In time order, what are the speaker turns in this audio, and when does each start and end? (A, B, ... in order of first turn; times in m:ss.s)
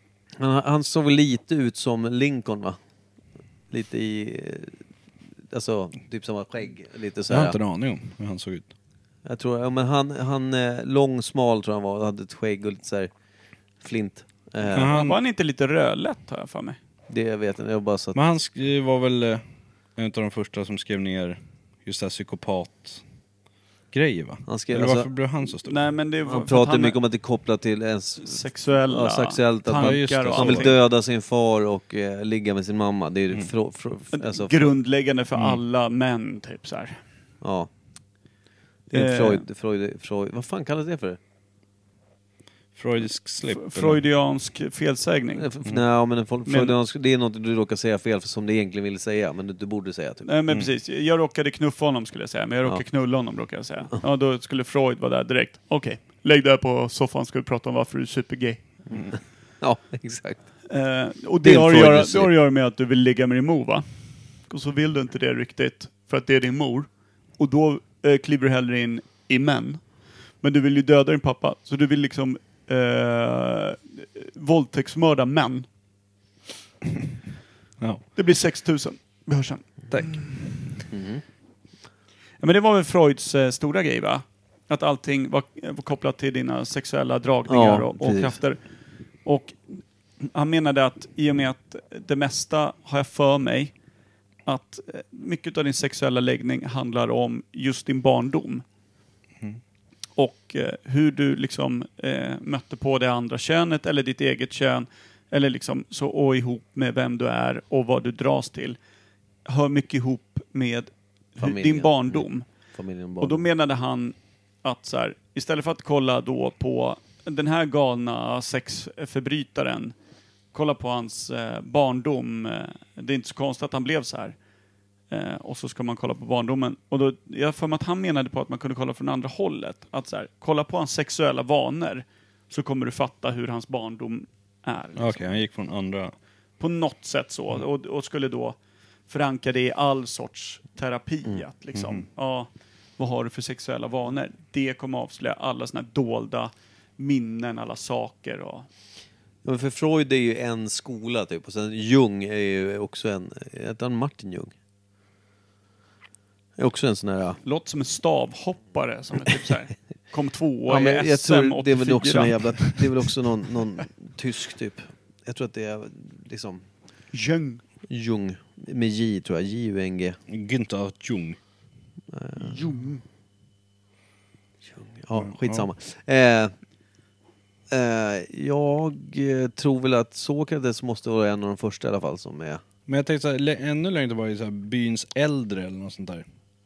0:00.4-0:02.8 A
0:03.7-0:04.8 A
0:05.5-0:07.6 A
0:07.3-0:08.7 B
0:09.2-0:13.1 A
0:13.8-0:14.9 A
0:14.7-0:15.2 B
0:14.8-0:16.8 C
0:17.1-0:18.2 A
0:18.1-0:19.4 B
0:20.0-0:23.0 B
0:23.9-0:25.9 B
0:24.5-0:25.1 A
0:25.6-0:27.0 C
0:26.2-0:34.7 A
0:28.2-0:30.8 C
0:29.7-0:30.7 B
0:34.1-0:37.0 C
0:37.4-0:37.7 A
0:38.9-0:41.2 A
0:38.9-0:39.4 C
0:42.8-0:44.0 B
0:43.4-0:45.5 C
0:45.4-0:50.3 A
0:46.5-0:46.7 C
0:50.2-0:58.6 C
0:58.9-1:00.4 A
1:00.7-1:03.8 C
1:01.4-1:02.3 A
1:04.5-1:09.8 C
1:10.4-1:15.6 C
1:18.1-1:20.4 C
1:19.9-1:20.2 B
1:20.9-1:21.2 A
1:22.4-1:28.6 C
1:27.5-1:28.4 A
1:29.2-1:33.7 C
1:34.4-1:38.6 C
1:40.2-1:48.8 C
1:49.4-1:52.4 C
1:51.4-1:53.4 A
1:53.2-1:59.9 C
2:00.5-2:04.4 C
2:05.1-2:15.2 C
2:15.0-2:16.1 B
2:16.6-2:18.6 C
2:19.1-2:28.7 C
2:21.7-2:22.0 B
2:29.4-2:34.5 A
2:36.6-2:37.4 A
2:37.4-2:42.9 C
2:40.7-2:46.6 A
2:47.1-2:47.6 C
2:47.9-2:50.2 A
2:50.3-2:51.4 B
2:52.1-2:52.6 A
2:52.4-2:53.0 C
2:54.7-2:56.5 A
2:55.2-2:55.7 B
2:57.7-3:02.6 A
3:02.9-3:06.2 B